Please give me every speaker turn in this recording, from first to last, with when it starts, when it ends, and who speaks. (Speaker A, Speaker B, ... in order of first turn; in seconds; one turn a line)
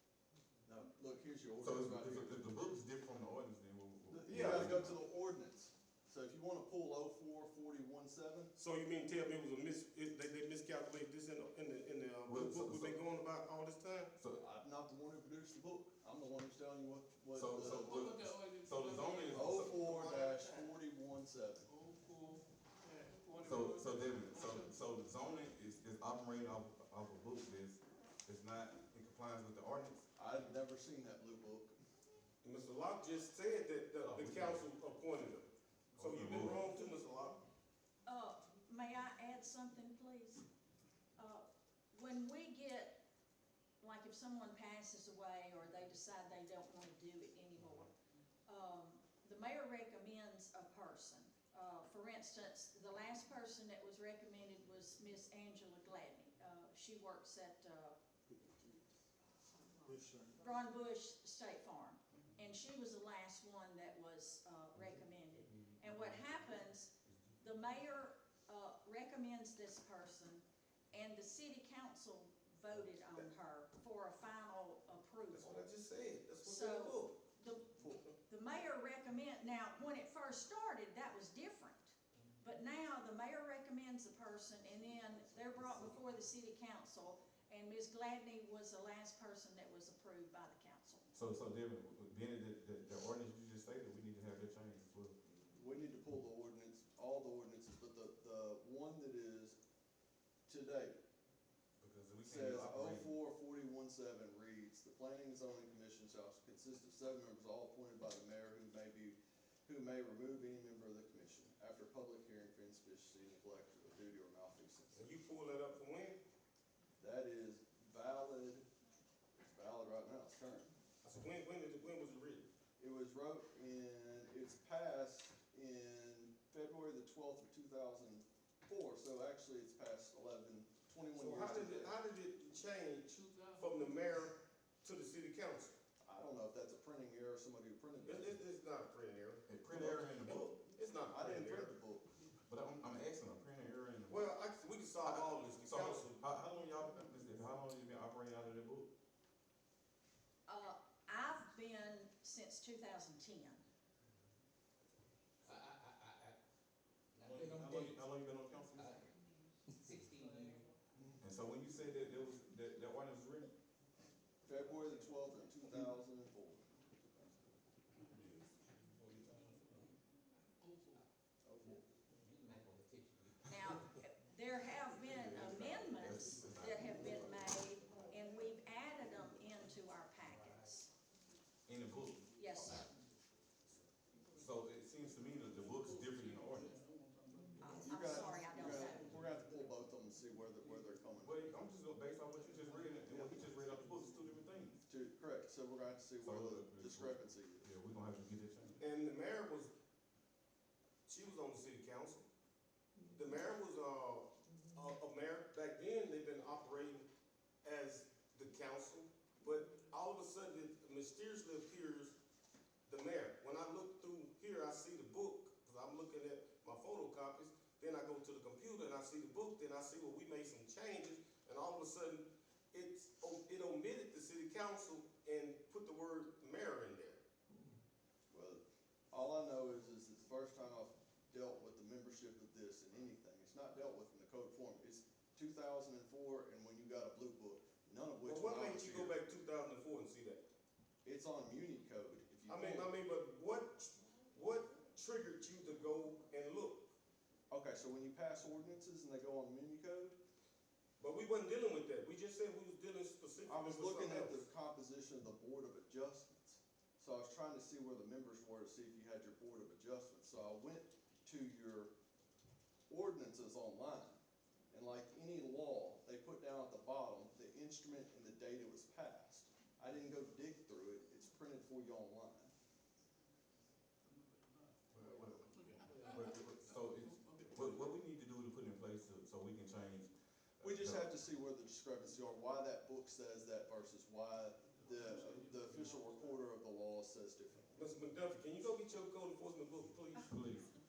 Speaker A: 0.7-2.4
Speaker B: 1.6-4.9
Speaker A: 4.1-8.5
Speaker C: 4.3-4.7
Speaker C: 8.6-14.1
Speaker B: 12.2-13.0
Speaker A: 14.3-18.1
Speaker B: 17.3-19.9
Speaker D: 17.6-20.7
Speaker A: 19.3-21.7
Speaker D: 21.7-24.7
Speaker B: 23.4-30.1
Speaker A: 30.1-31.7
Speaker C: 32.4-37.4
Speaker B: 34.1-34.6
Speaker B: 35.9-36.7
Speaker E: 38.0-40.4
Speaker E: 41.2-43.0
Speaker E: 43.8-47.9
Speaker E: 48.5-58.0
Speaker E: 59.9-75.7
Speaker A: 59.9-60.4
Speaker C: 75.3-77.2
Speaker E: 76.4-91.1
Speaker B: 91.1-95.1
Speaker A: 95.4-99.6
Speaker A: 100.5-101.0
Speaker B: 101.8-103.1
Speaker A: 102.2-115.1
Speaker C: 114.9-116.2
Speaker A: 117.0-118.7
Speaker A: 119.4-120.7
Speaker C: 121.0-122.5
Speaker A: 122.8-131.9
Speaker C: 131.1-135.8
Speaker D: 133.3-133.8
Speaker A: 136.0-138.4
Speaker C: 138.0-141.7
Speaker B: 139.5-140.5
Speaker A: 141.1-142.1
Speaker B: 142.5-144.3
Speaker C: 144.1-146.2
Speaker B: 145.0-148.9
Speaker E: 150.5-153.6
Speaker F: 155.4-156.4
Speaker F: 157.1-158.0
Speaker B: 157.2-159.0
Speaker F: 158.7-159.1
Speaker F: 159.7-160.7
Speaker B: 161.2-163.5
Speaker A: 164.4-166.6
Speaker D: 168.1-169.9
Speaker A: 171.4-171.8
Speaker F: 172.2-173.7
Speaker E: 173.4-180.9
Speaker B: 175.1-177.4
Speaker F: 180.3-180.7
Speaker B: 181.7-182.8
Speaker E: 182.3-182.9
Speaker B: 184.3-186.7
Speaker D: 185.5-189.8
Speaker E: 187.6-189.1
Speaker A: 187.8-191.4
Speaker B: 191.2-194.8
Speaker A: 193.1-193.4
Speaker A: 194.9-197.7
Speaker B: 196.2-198.8
Speaker C: 198.8-199.7
Speaker C: 201.1-202.3
Speaker C: 203.1-207.1
Speaker C: 207.6-212.2
Speaker C: 212.9-227.2
Speaker A: 228.3-239.2
Speaker C: 238.2-240.4
Speaker A: 241.0-242.9
Speaker C: 242.5-246.9
Speaker A: 247.5-250.2
Speaker C: 251.0-254.4
Speaker A: 253.4-261.9
Speaker A: 262.9-264.2
Speaker A: 264.7-272.5
Speaker D: 274.1-274.8
Speaker B: 274.9-281.1
Speaker D: 275.5-276.3
Speaker D: 277.1-277.8
Speaker A: 280.6-287.7
Speaker D: 284.7-286.4
Speaker C: 287.7-290.3
Speaker B: 290.2-290.7